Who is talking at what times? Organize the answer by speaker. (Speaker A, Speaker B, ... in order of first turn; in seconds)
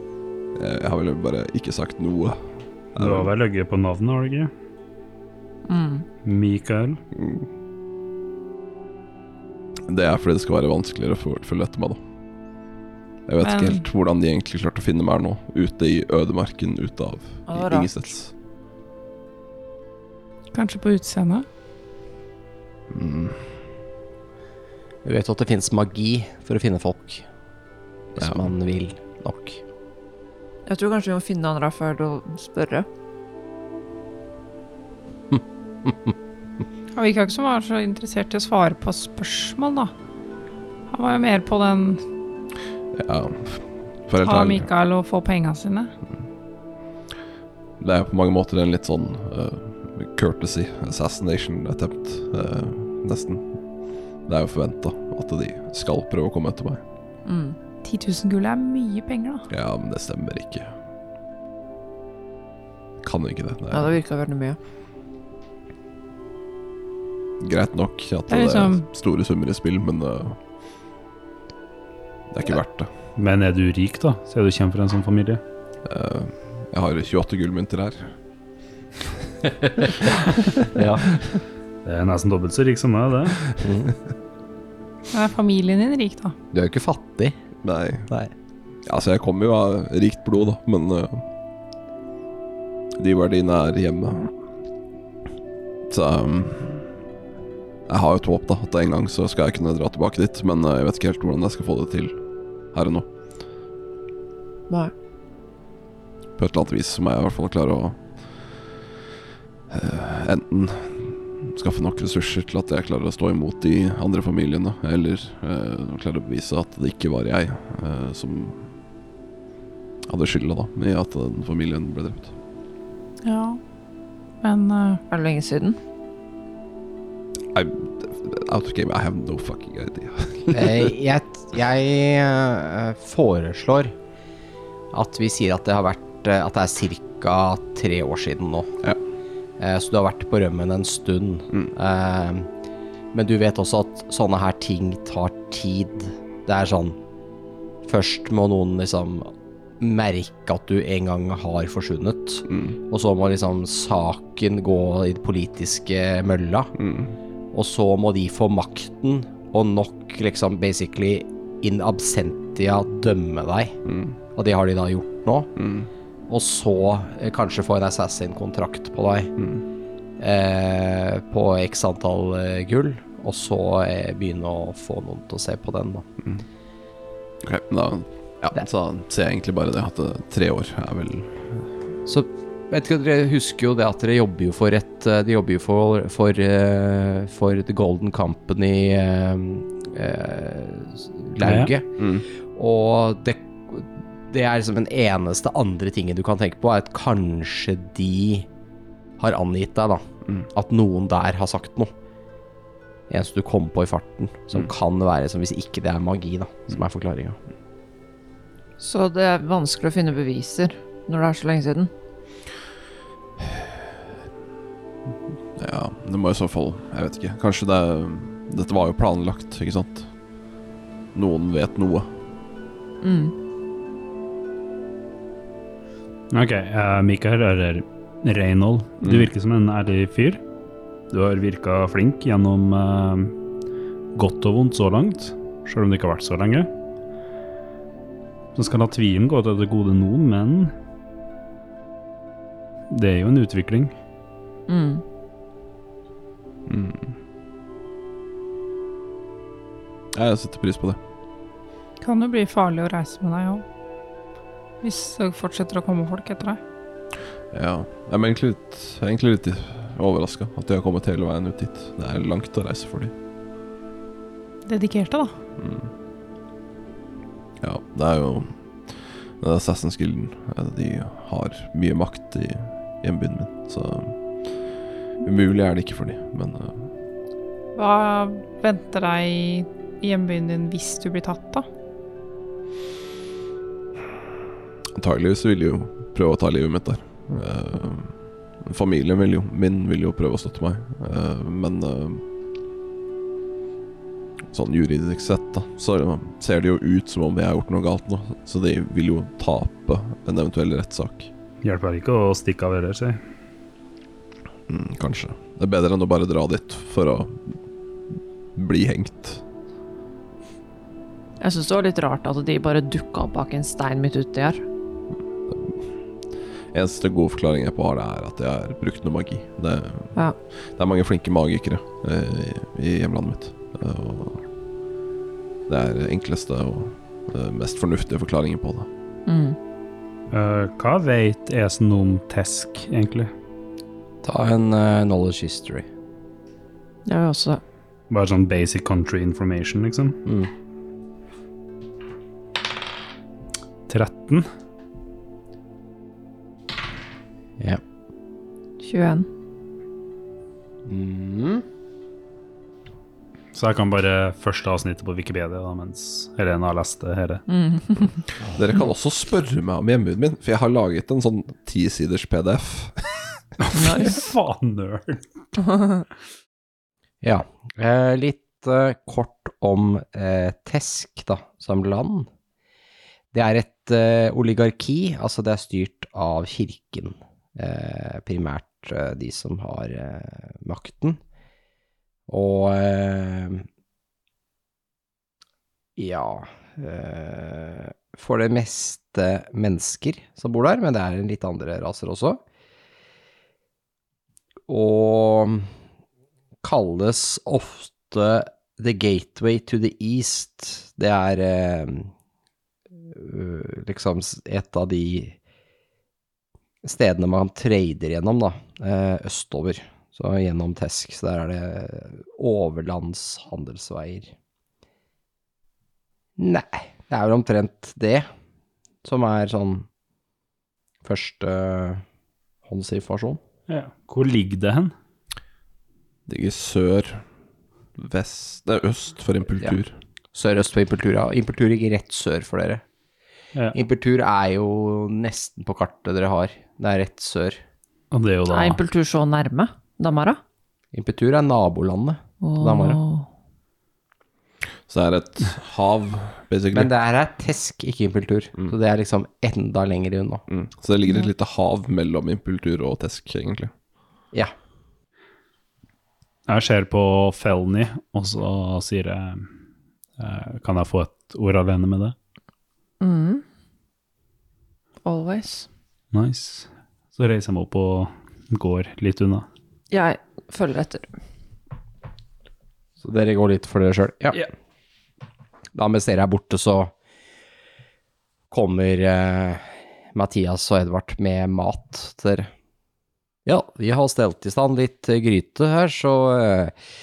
Speaker A: 0.5-3.3, 7.1-7.5, 9.9-12.0, 13.3-18.3, 22.9-23.6, 28.2-28.4, 42.9-44.7, 47.8-53.5, 54.2-56.8, 59.5-60.7, 63.0-64.0, 67.4-70.4, 72.3-72.9, 75.8-78.1, 87.6-88.1, 88.8-91.2, 93.0-94.3, 95.9-96.8, 97.9-102.2, 102.7-103.1, 106.4-108.1, 109.7-118.7, 120.0-122.3, 127.5-130.9, 152.5-152.7, 156.8-157.1, 163.8-164.2, 165.6-165.9, 177.4-181.6, 192.0-192.2, 213.4-213.9, 215.6-220.1, 221.1-222.1, 229.0-229.3, 246.7-247.1, 250.1-251.0, 257.5-263.1, 265.6-265.9, 267.6-274.5, 275.2-276.9, 284.9-292.2, 294.5-301.3, 304.7-307.5, 308.5-309.4, 315.5-315.8, 316.7-324.4, 325.7-328.9, 358.4-363.4, 426.3-427.2, 428.0-429.9, 444.9-446.9, 450.5-453.7
Speaker B: 3.0-4.5, 6.2-7.0, 73.2-75.4, 81.8-83.5, 191.4-191.7, 226.3-230.4, 231.1-233.3, 234.1-236.7, 238.5-240.7, 242.9-243.9, 301.6-303.2, 330.3-333.3, 338.1-340.2, 343.9-344.5, 353.5-357.4, 363.6-365.2, 423.7-424.9, 438.1-438.8, 456.5-459.5, 460.2-462.1, 466.1-469.4
Speaker C: 5.7-6.0, 17.5-17.9, 30.6-32.9, 57.2-57.6, 63.7-64.6, 125.1-125.8, 208.8-211.9, 223.0-223.3, 244.7-245.0, 311.4-314.6, 329.2-329.6, 337.1-337.6, 348.8-349.3, 357.5-358.2, 363.7-364.3, 365.7-366.0, 438.5-440.4, 442.4-443.3, 463.0-463.4, 465.0-465.7, 469.9-471.1
Speaker D: 13.4-13.8, 20.5-21.4, 36.9-39.9, 40.9-42.0, 44.2-45.9, 57.8-59.5, 68.3-68.8, 85.1-86.3, 123.2-123.6, 124.4-125.0, 252.0-253.6, 254.8-256.6, 264.6-265.3, 277.7-281.6
Speaker E: 25.0-27.2, 28.1-29.6, 35.3-36.1, 79.7-80.0, 80.7-81.2, 83.6-83.9, 86.5-87.3, 130.5-133.9, 134.9-138.7, 139.6-142.5, 143.1-147.0, 147.8-156.7, 157.5-163.8, 164.3-165.5, 166.3-169.3, 170.2-176.1, 182.1-191.9, 192.5-198.5, 199.2-201.9, 203.1-207.4, 334.2-335.9, 350.9-351.6, 367.2-372.3, 373.3-381.2, 382.3-383.6, 386.0-392.4, 394.7-395.7, 396.6-402.1, 403.1-405.4, 406.8-414.3, 416.4-418.3, 419.0-419.9, 421.0-422.0, 422.6-423.4, 430.3-432.8, 433.7-437.6, 440.9-443.0, 446.7-450.4, 473.0-474.4, 475.7-476.9, 478.5-482.5, 483.4-486.7